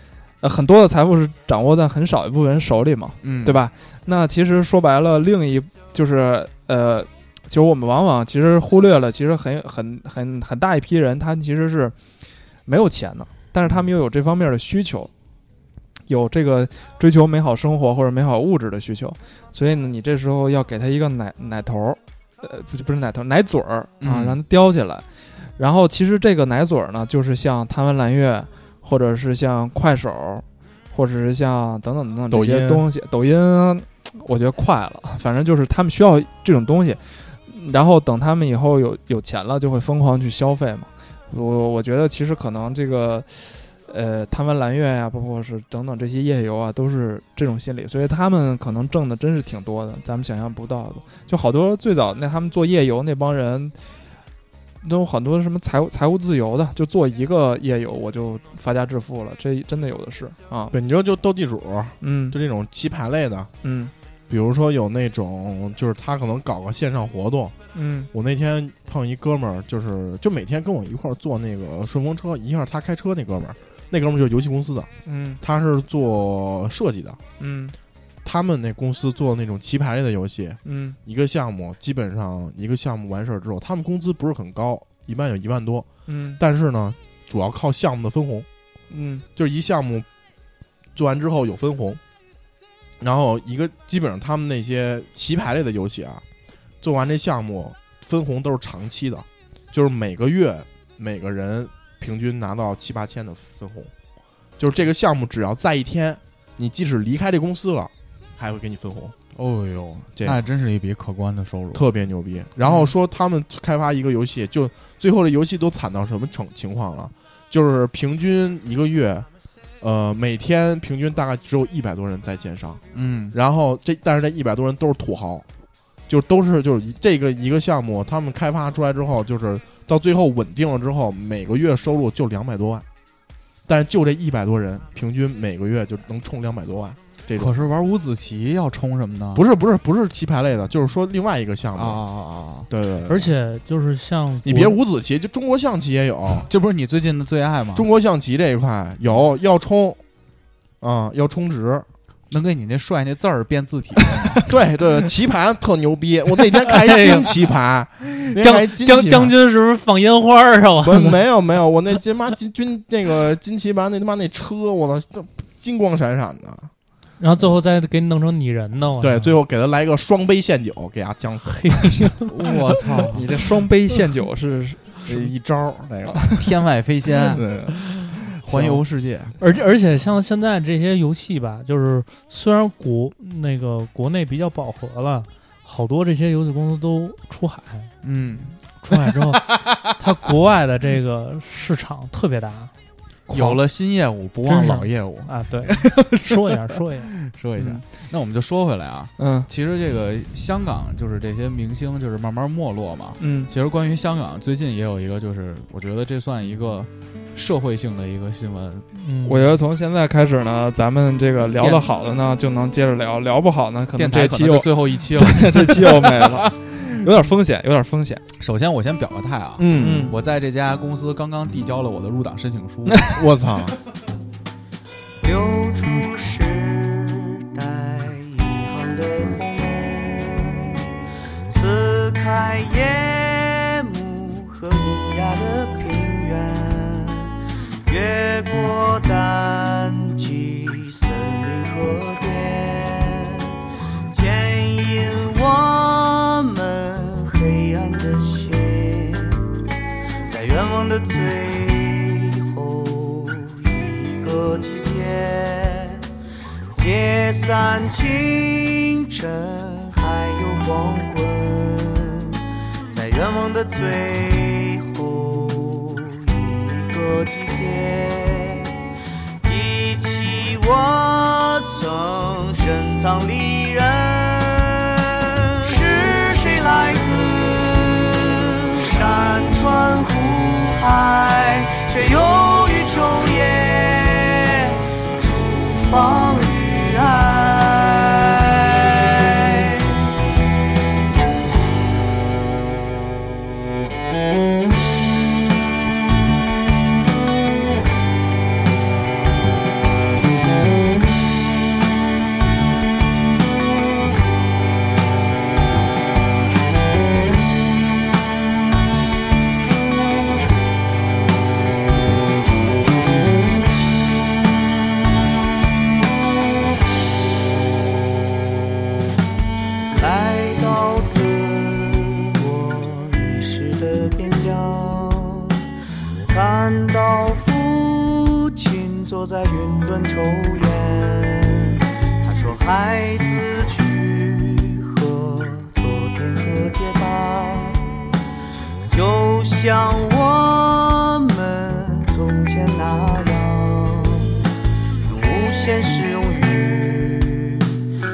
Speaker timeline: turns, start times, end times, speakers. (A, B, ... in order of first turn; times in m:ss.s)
0:00.4-0:12.0 A
0:03.2-0:03.6 B
0:12.6-0:15.1 A
0:16.1-0:53.7 A
0:24.0-0:24.4 B
0:32.3-0:32.9 C
0:54.8-1:00.7 A
1:00.7-1:03.5 C
1:02.0-1:02.4 A
1:03.6-1:03.9 A
1:04.3-1:07.6 C
1:07.7-1:08.1 A
1:08.1-1:17.2 C
1:15.0-1:15.4 A
1:17.4-1:17.7 A
1:18.2-1:28.5 C
1:20.6-1:21.0 A
1:26.1-1:26.4 A
1:28.9-1:29.2 A
1:29.4-1:30.1 C
1:30.9-1:32.0 C
1:33.0-1:36.2 C
1:36.8-1:43.9 C
1:44.6-1:49.1 C
1:49.4-1:51.8 B
1:50.2-1:50.4 C
1:51.7-1:59.3 C
1:59.8-2:05.4 C
2:02.9-2:03.3 B
2:06.1-2:12.8 C
2:13.7-2:17.6 C
2:17.4-2:19.4 B
2:19.3-2:22.0 C
2:21.8-2:22.7 B
2:22.7-2:23.3 C
2:23.1-2:24.8 D
2:24.4-2:26.5 C
2:26.5-2:27.9 B
2:27.7-2:30.0 C
2:30.8-2:31.8 C
2:32.3-2:34.4 B
2:34.4-2:39.3 C
2:36.7-2:37.3 D
2:38.3-2:41.2 D
2:40.8-2:46.7 C
2:47.2-2:49.4 D
2:49.0-2:52.0 C
2:51.5-2:52.3 D
2:52.3-2:53.2 B
2:53.1-2:55.2 A
2:55.0-2:56.4 C
2:56.4-2:57.5 B
2:57.3-2:58.0 C
2:58.4-2:59.3 B
2:59.4-3:07.9 D
3:08.0-3:08.6 B
3:08.8-3:12.7 D
3:09.3-3:09.6 B
3:13.3-3:28.8 B
3:14.4-3:17.1 D
3:17.6-3:17.8 A
3:19.2-3:19.5 A
3:23.2-3:23.5 A
3:28.9-3:29.5 D
3:29.2-3:38.2 A
3:31.5-3:31.8 B
3:34.0-3:36.4 B
3:38.4-3:43.2 B
3:39.6-3:40.1 C
3:39.7-3:40.1 A
3:43.1-3:43.7 C
3:45.2-3:50.8 E
3:51.5-4:03.5 E
4:04.1-4:09.5 E
4:10.3-4:16.0 E
4:16.7-4:28.7 E
4:29.4-4:34.9 E
4:35.5-4:50.0 E
5:19.9-5:25.6 E
5:26.3-5:37.9 E
5:38.9-5:44.4 E
5:45.0-5:47.8 E